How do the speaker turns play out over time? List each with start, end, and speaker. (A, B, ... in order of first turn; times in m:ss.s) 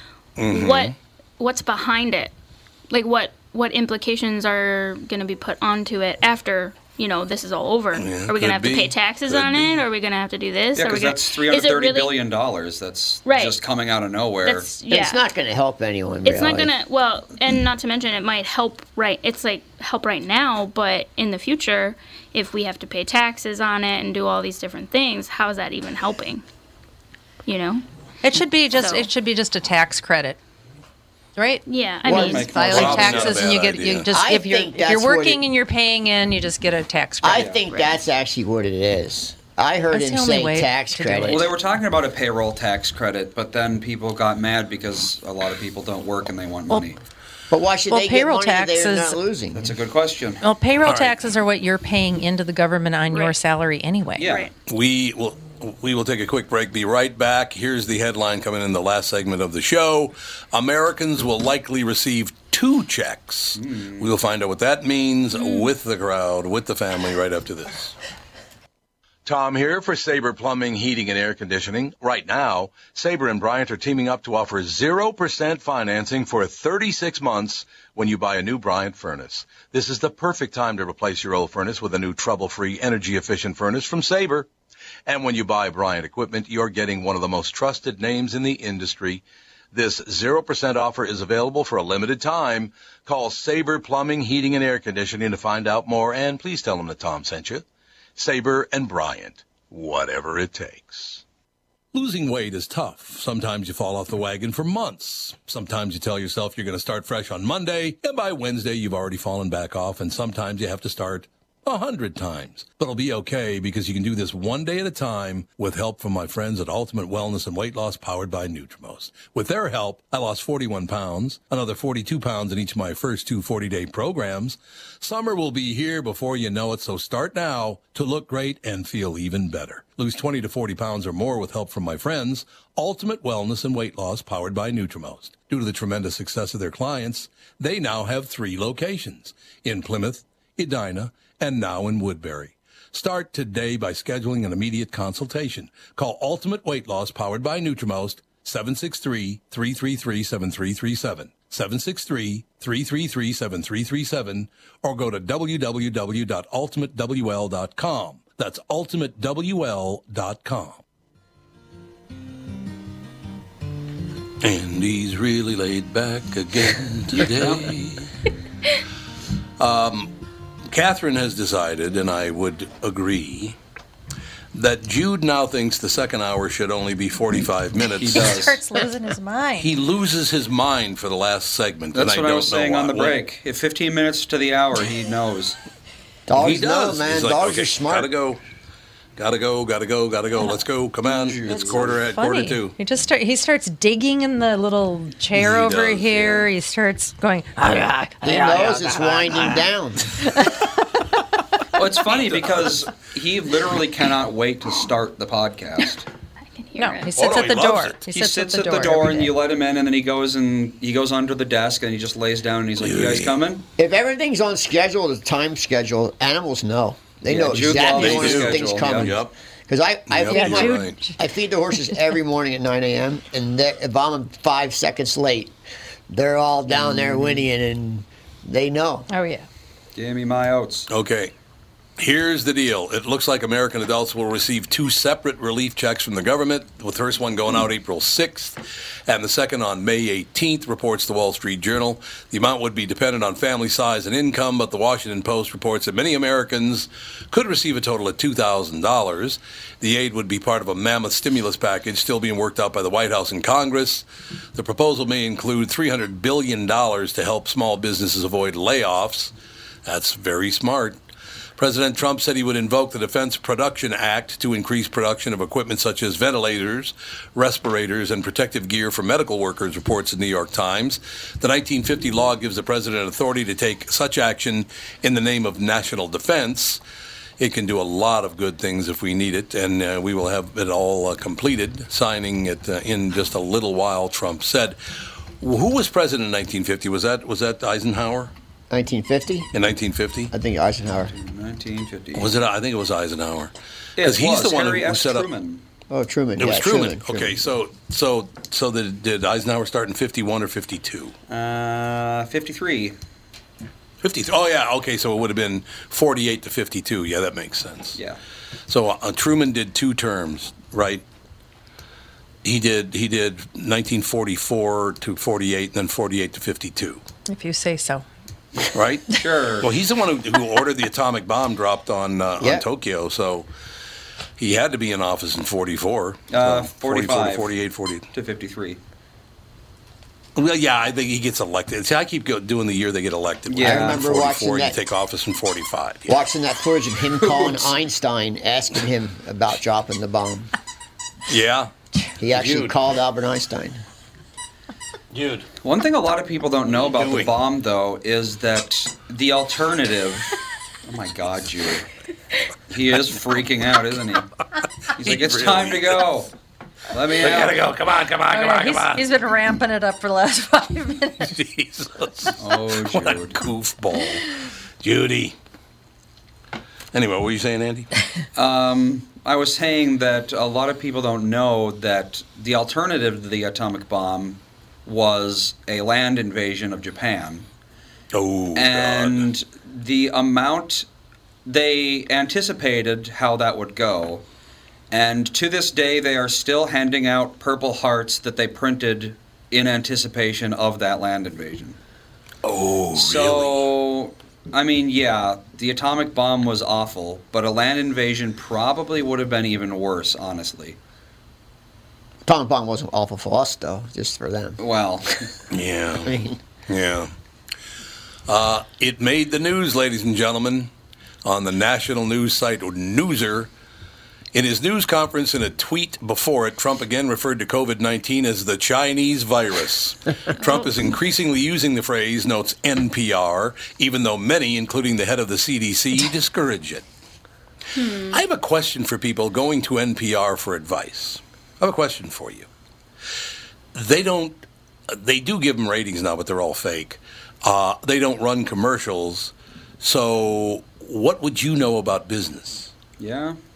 0:00.4-0:01.0 A
0:00.5-0:02.3 B
0:02.9-0:12.2 B
0:08.0-0:09.8 A
0:10.8-0:14.7 C
0:13.2-0:13.6 B
0:14.4-0:15.2 B
0:14.9-0:16.7 D
0:16.2-0:26.4 B
0:27.5-0:27.8 B
0:28.2-0:30.4 E
0:28.8-0:29.1 B
0:31.4-0:37.5 E
0:31.7-0:32.6 B
0:32.1-0:33.5 C
0:32.1-0:32.8 D
0:32.7-0:34.1 A
0:34.1-0:35.4 D
0:37.2-0:41.5 D
0:37.3-0:37.6 C
0:37.7-0:38.0 B
0:39.9-0:41.5 E
0:41.2-0:47.0 C
0:47.5-0:49.7 D
0:47.9-0:49.2 E
0:49.6-0:50.4 C
0:50.4-0:54.3 E
0:50.8-0:51.2 A
0:54.2-0:54.5 C
0:54.2-0:54.5 B
0:54.7-1:08.0 A
1:03.6-1:04.1 C
1:05.4-1:05.7 B
1:09.2-1:24.5 A
1:25.1-1:37.6 A
1:38.2-1:41.2 A
1:41.9-2:40.8 A
2:44.4-2:48.1 A
2:47.2-2:47.8 C
2:49.6-2:50.1 A
2:50.7-2:53.6 A
2:54.5-2:58.4 A
2:58.0-2:58.6 C
2:58.2-2:59.7 E
2:59.6-3:03.2 A
3:01.9-3:05.6 C
3:06.3-3:08.1 D
3:06.4-3:08.4 A
3:09.2-3:12.8 A
3:11.2-3:12.0 C
3:11.5-3:19.6 E
3:15.3-3:16.5 A
3:18.2-3:20.2 D
3:20.2-3:20.7 E
3:21.8-3:26.1 C
3:22.1-3:22.6 A
3:26.5-3:27.1 B
3:26.8-3:29.3 E
3:27.2-3:28.0 A
3:28.1-3:33.7 C
3:32.8-3:33.4 A
3:33.8-3:45.5 D
3:37.3-3:39.2 C
3:37.8-3:39.3 A
3:40.1-3:41.0 A
3:40.3-3:41.2 E
3:46.1-3:49.1 D
3:46.7-3:47.4 C
3:49.1-3:49.4 E
3:50.0-3:50.9 C
3:50.9-3:51.3 A
3:52.0-4:19.3 A
4:19.9-4:21.0 A
4:21.6-4:36.8 A
4:37.4-4:48.3 A
4:48.7-4:49.5 D
4:49.5-4:50.3 A
4:50.3-4:51.1 D
4:51.1-4:52.3 C
4:52.2-4:55.3 A
4:54.0-4:55.6 C
4:55.9-4:57.3 D
4:56.4-5:01.1 A
5:01.3-5:03.0 C
5:04.0-5:08.0 A
5:08.7-5:11.0 A
5:12.4-5:17.0 A
5:17.3-5:18.0 E
5:18.7-5:23.5 A
5:19.2-5:19.7 C
5:22.4-5:22.6 D
5:24.4-5:28.1 A
5:26.3-5:27.5 C
5:28.1-5:28.8 C
5:30.4-5:36.2 A
5:33.5-5:34.0 C
5:33.6-5:34.8 D
5:36.1-5:40.5 D
5:41.3-5:41.7 A
5:42.2-5:43.8 D
5:42.3-5:42.8 A
5:45.1-5:45.5 A
5:45.6-5:51.9 C
5:46.7-5:47.3 A
5:52.7-5:54.3 C
5:55.0-5:56.0 A
5:55.0-5:56.3 C
5:56.9-5:57.6 C
5:57.2-5:59.1 A
5:58.3-6:01.3 E
6:01.2-6:04.3 A
6:02.4-6:03.4 C
6:04.8-6:05.4 A
6:06.9-6:07.9 A
6:08.4-6:17.5 C
6:18.1-6:19.3 A
6:18.6-6:20.9 C
6:21.4-6:24.2 C
6:24.9-6:31.8 C
6:32.4-6:33.7 A
6:33.0-6:40.8 C
6:42.3-6:44.6 D
6:44.6-6:45.2 C
6:45.5-6:46.2 A
6:46.0-6:46.4 D
6:46.7-6:47.1 A
6:48.3-6:50.7 A
6:51.2-6:53.5 A
6:54.3-7:06.8 A
7:00.4-7:00.7 B
7:07.8-7:08.2 B
7:08.0-7:12.5 A
7:13.7-7:22.7 A
7:23.0-7:23.4 C